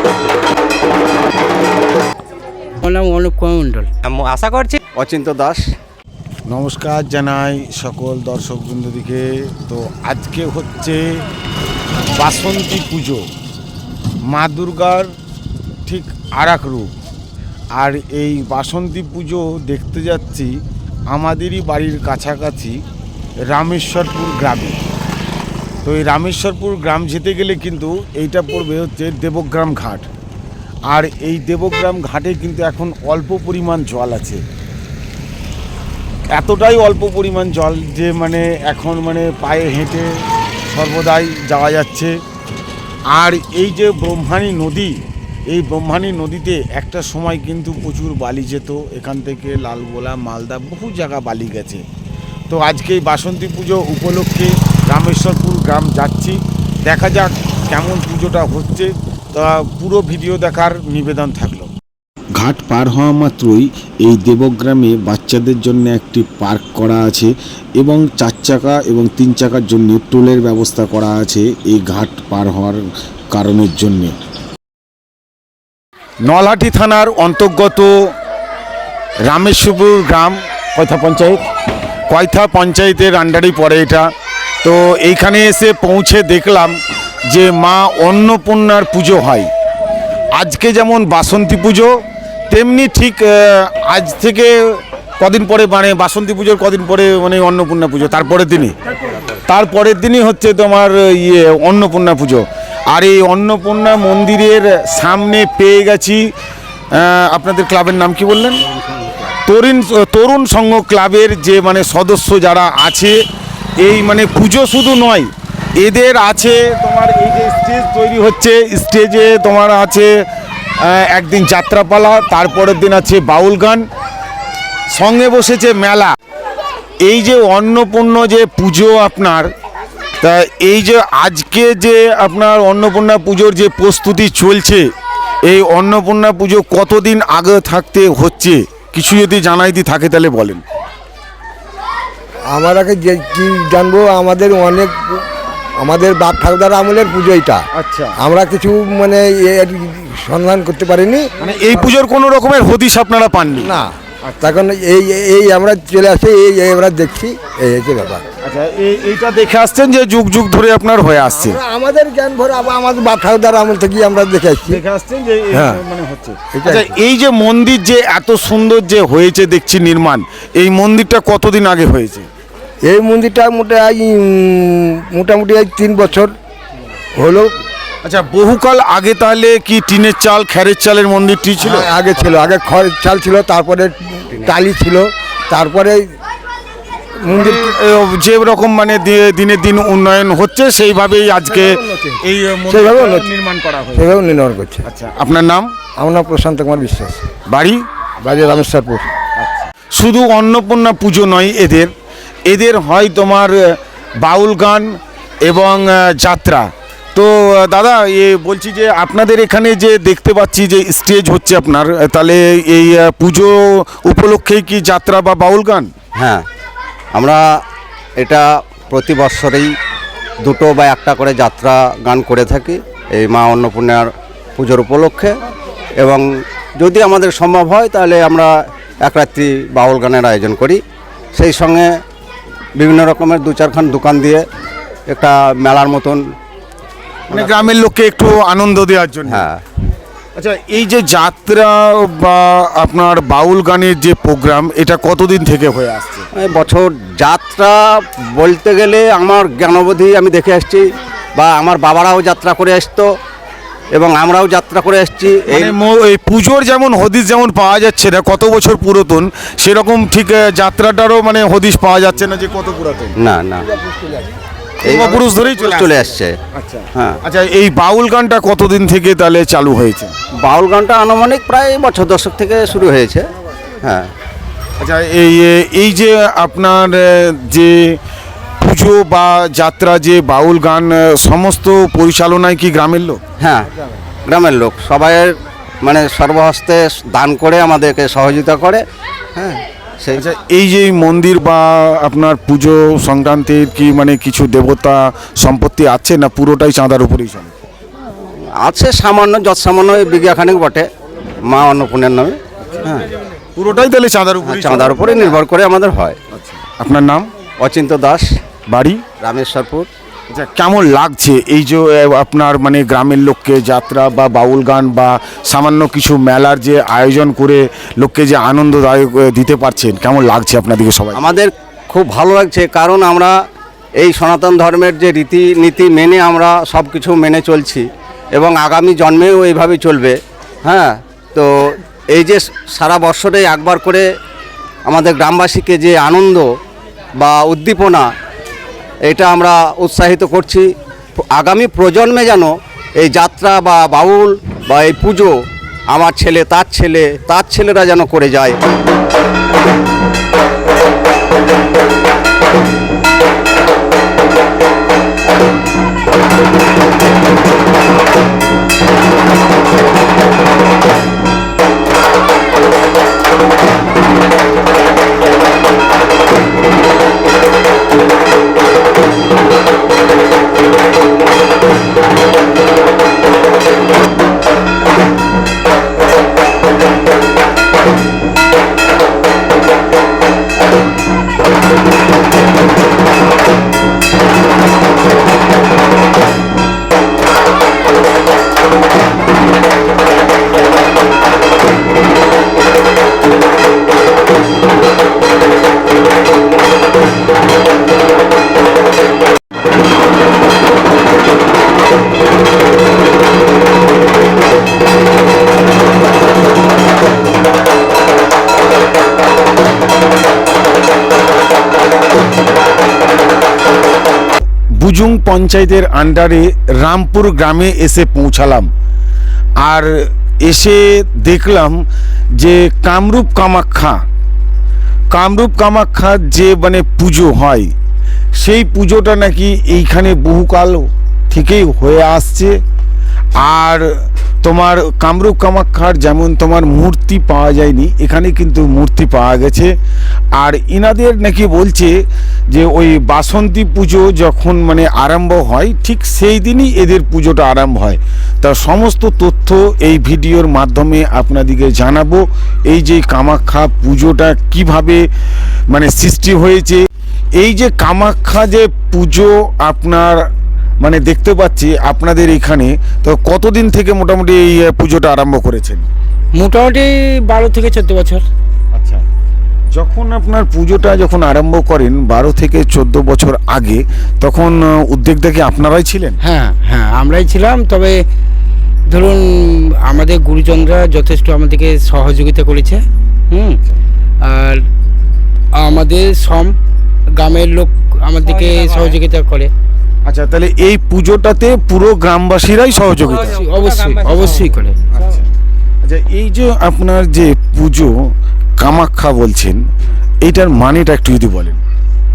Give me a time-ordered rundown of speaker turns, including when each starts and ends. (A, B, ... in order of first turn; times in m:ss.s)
0:02.8-0:03.9 A
0:04.1-0:04.7 B
0:05.0-0:05.7 C
0:06.5-0:11.2 D
0:12.1-0:13.2 D
0:14.3-0:15.1 D
0:15.8-0:16.9 D
0:17.7-0:20.6 D
0:21.1-0:22.8 D
0:23.5-0:24.8 D
0:25.8-0:30.1 D
0:30.9-0:34.4 D
0:36.3-0:42.2 D
0:43.1-0:51.8 D
0:52.5-1:01.7 D
1:02.4-1:14.2 D
1:16.2-1:18.1 D
1:19.2-1:21.4 D
1:22.1-1:24.1 D
1:24.6-1:29.5 D
1:30.3-1:32.0 D
1:32.5-1:38.8 D
1:39.4-1:46.3 D
1:46.9-1:48.6 D
1:49.4-1:53.2 D
1:53.8-2:00.2 D
2:00.8-2:03.9 D
2:04.9-2:06.1 D
2:07.0-2:09.5 D
2:10.2-2:14.9 D
2:15.4-2:20.6 D
2:22.5-2:25.2 E
2:25.8-2:27.6 E
2:27.7-2:28.2 D
2:28.2-2:31.9 E
2:31.4-2:33.7 D
2:33.6-2:38.2 E
2:38.4-2:41.6 D
2:41.2-2:44.8 E
2:44.7-2:52.3 D
2:45.5-2:45.8 E
2:46.5-2:46.9 E
2:52.8-2:56.3 E
2:57.2-2:57.5 E
2:58.0-3:01.9 D
3:01.6-3:06.1 E
3:07.2-3:07.8 E
3:07.3-3:14.2 D
3:11.5-3:12.2 E
3:12.7-3:13.3 E
3:13.9-3:14.9 E
3:14.8-3:15.7 D
3:16.0-3:17.3 E
3:17.5-3:17.8 D
3:18.2-3:19.1 E
3:19.4-3:21.9 D
3:22.5-3:35.9 D
3:36.2-3:36.4 C
3:37.1-3:37.4 C
3:38.2-3:39.7 C
3:40.4-3:45.3 C
3:46.0-3:46.2 C
3:46.8-3:48.5 C
3:49.0-3:50.8 C
3:51.4-3:51.9 C
3:52.8-3:54.4 C
3:55.1-3:56.2 C
3:57.3-3:57.7 C
3:57.3-3:59.5 D
3:59.3-3:59.6 C
4:00.4-4:06.3 D
4:06.4-4:10.8 C
4:11.4-4:13.1 C
4:13.9-4:15.8 C
4:15.5-4:23.2 D
4:23.2-4:23.7 C
4:23.8-4:24.1 E
4:24.8-4:25.9 D
4:24.8-4:26.4 C
4:26.5-4:30.1 D
4:30.4-4:33.3 C
4:33.8-4:34.1 C
4:34.8-4:38.0 D
4:38.6-4:43.2 D
4:43.4-4:43.7 C
4:44.2-4:48.8 C
4:49.4-4:50.2 C
4:50.2-4:57.5 D
4:58.6-5:00.9 C
5:01.5-5:03.1 C
5:03.6-5:05.4 D
5:04.4-5:06.2 C
5:06.3-5:07.3 D
5:07.6-5:08.3 C
5:08.7-5:09.0 D
5:09.2-5:09.9 C
5:10.3-5:21.3 D
5:21.2-5:23.3 C
5:24.0-5:34.0 C
5:34.9-5:36.4 C
5:37.2-5:38.1 C
5:39.1-5:40.7 C
5:41.3-5:45.3 C
5:45.9-5:48.6 C
6:54.8-6:58.7 D
6:59.6-7:01.8 D
7:02.4-7:04.0 D
7:05.1-7:07.7 D
7:08.4-7:12.6 D
7:13.4-7:19.8 D
7:20.3-7:35.1 D
7:35.7-7:40.3 D
7:40.8-7:45.9 D
7:46.3-7:48.3 A
7:48.7-7:49.0 D
7:49.7-7:56.2 D
7:56.2-7:58.1 A
7:58.9-8:03.6 A
8:04.2-8:04.7 A
8:05.6-8:09.5 A
8:08.2-8:09.0 B
8:10.1-8:13.4 D
8:12.9-8:14.6 B
8:13.0-8:14.8 A
8:14.9-8:15.2 D
8:15.8-8:19.6 D
8:20.2-8:21.6 D